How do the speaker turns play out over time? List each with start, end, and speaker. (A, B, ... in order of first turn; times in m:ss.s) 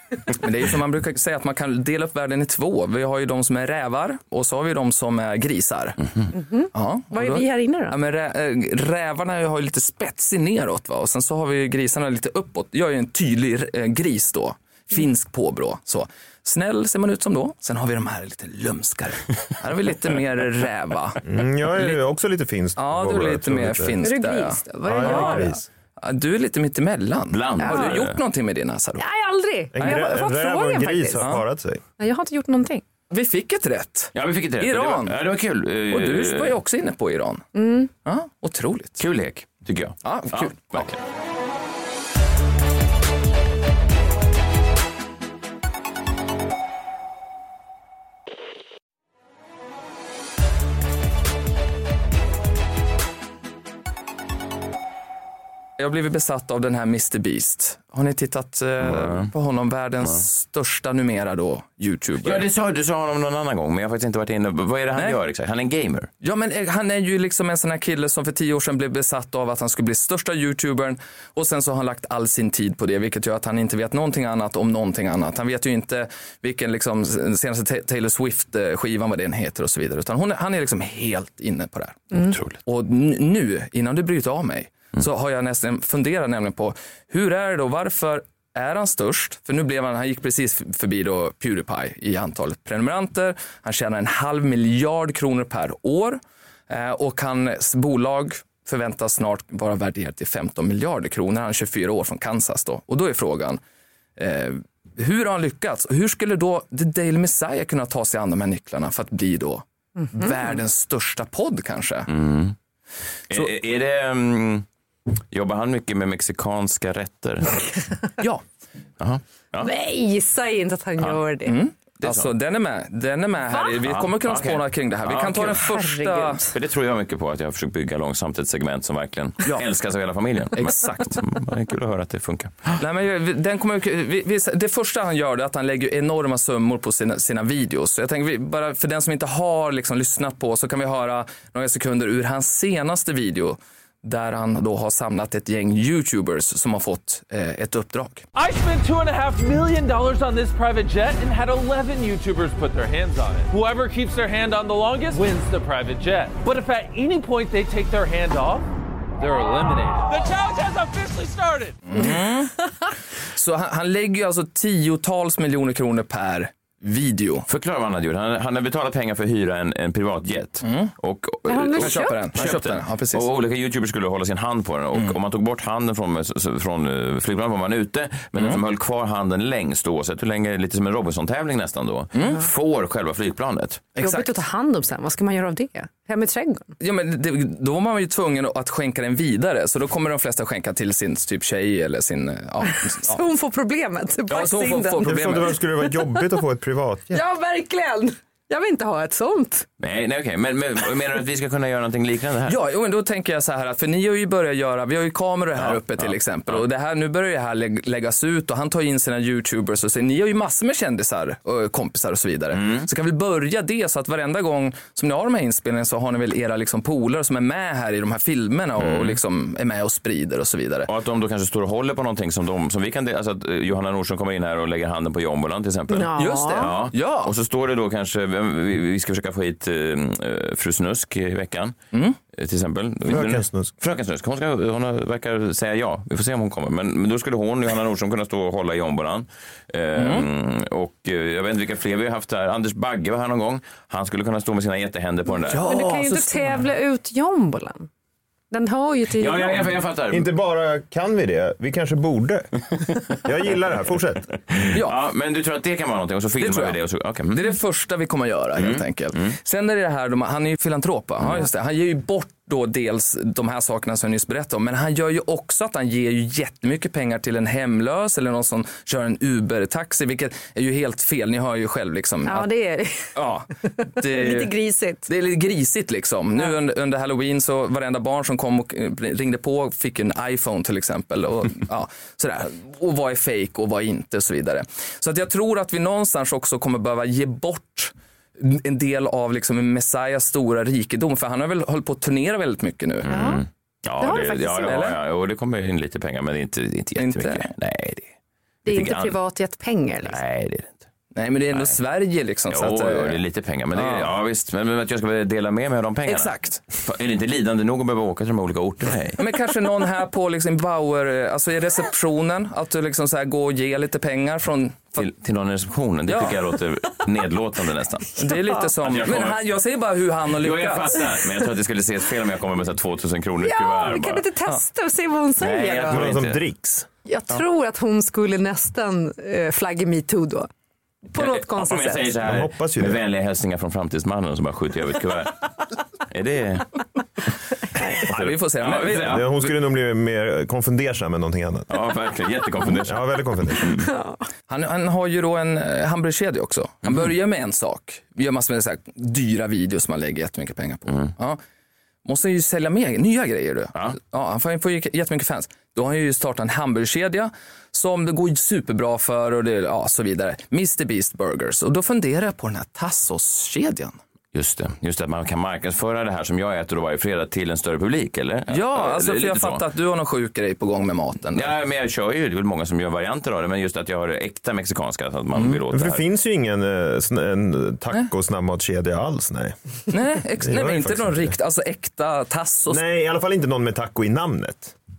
0:00.3-0:06.0 A
0:06.3-0:08.0 B
0:06.7-0:21.2 A
0:21.2-0:24.0 C
0:22.8-0:29.0 A
0:24.0-0:25.6 B
0:24.8-0:25.6 C
0:27.3-0:28.2 D
0:27.6-0:28.0 B
0:29.0-0:31.2 B
0:29.7-0:31.8 C
0:31.2-0:31.4 A
0:32.0-0:32.8 B
0:33.1-0:35.2 A
0:34.2-0:36.6 D
0:35.9-0:39.0 A
0:37.6-0:37.9 B
0:39.0-0:41.0 D
0:40.0-0:40.9 A
0:55.8-1:02.4 A
0:58.8-0:59.3 D
1:02.2-1:06.1 D
1:06.2-1:43.6 A
1:22.2-1:22.6 D
1:44.2-1:52.1 A
1:52.1-1:52.6 D
1:53.3-1:54.7 D
1:55.3-1:57.6 D
1:59.0-1:59.7 D
1:59.6-2:01.6 B
2:01.4-2:06.4 A
2:02.0-2:02.3 D
2:03.8-2:05.6 D
2:05.6-2:06.5 B
2:06.5-2:12.8 D
2:10.6-2:11.2 A
2:12.8-2:28.3 A
2:28.3-2:38.7 E
2:39.2-2:41.8 E
2:41.9-2:42.6 A
2:43.3-2:47.5 A
2:47.5-3:03.9 D
2:50.6-2:50.9 A
2:51.5-2:52.4 B
2:51.7-2:53.3 A
3:02.1-3:02.4 A
3:04.0-3:04.3 A
3:04.0-3:06.7 B
3:06.8-3:13.2 A
3:12.7-3:15.3 B
3:14.3-3:15.5 A
3:15.0-3:17.2 C
3:17.1-3:19.7 B
3:19.8-3:22.6 D
3:22.5-3:40.9 A
3:25.6-3:26.6 D
3:32.6-3:32.9 D
3:38.8-3:39.2 D
3:40.9-3:51.8 D
3:45.9-3:46.7 B
3:46.2-3:47.3 A
3:52.3-4:05.7 D
3:53.1-3:53.7 C
4:00.0-4:00.3 A
4:05.4-4:07.9 B
4:05.5-4:06.7 A
4:08.5-4:09.8 B
4:09.1-4:10.3 D
4:10.1-4:14.4 C
4:14.5-4:17.4 D
4:16.4-4:16.8 A
4:17.3-4:32.5 A
4:18.6-4:19.3 D
4:32.3-4:33.1 B
4:33.1-4:34.5 A
4:34.0-4:35.1 B
4:35.1-4:53.2 A
4:53.0-4:58.1 D
4:53.1-4:53.4 B
4:54.0-4:54.8 B
4:54.6-4:55.0 A
4:57.0-4:57.5 A
4:58.6-4:59.2 D
4:58.7-5:00.2 B
5:00.0-5:00.8 D
5:01.1-5:03.2 A
5:02.5-5:09.2 D
5:03.7-5:04.1 A
5:06.1-5:06.6 A
5:09.2-5:15.1 A
5:15.0-5:18.2 D
5:16.1-5:16.4 A
5:18.2-5:21.1 A
5:18.8-5:19.4 D
5:20.4-5:24.2 D
5:23.4-5:26.1 B
5:25.4-5:26.4 D
5:25.9-5:26.9 C
5:27.1-5:30.5 B
5:31.1-5:32.2 B
5:31.2-5:35.5 D
5:32.2-5:33.0 C
5:36.1-5:36.7 D
5:37.8-5:39.5 A
5:37.9-5:39.3 D
5:38.8-5:41.7 C
5:41.7-5:43.8 D
5:42.8-5:43.9 C
5:44.5-5:51.4 A
5:52.0-6:04.0 A
6:04.3-6:09.6 D
6:08.5-6:11.5 A
6:11.4-6:16.0 D
6:15.7-6:19.6 C
6:19.9-6:22.8 A
6:20.4-6:21.3 C
6:22.7-6:24.8 C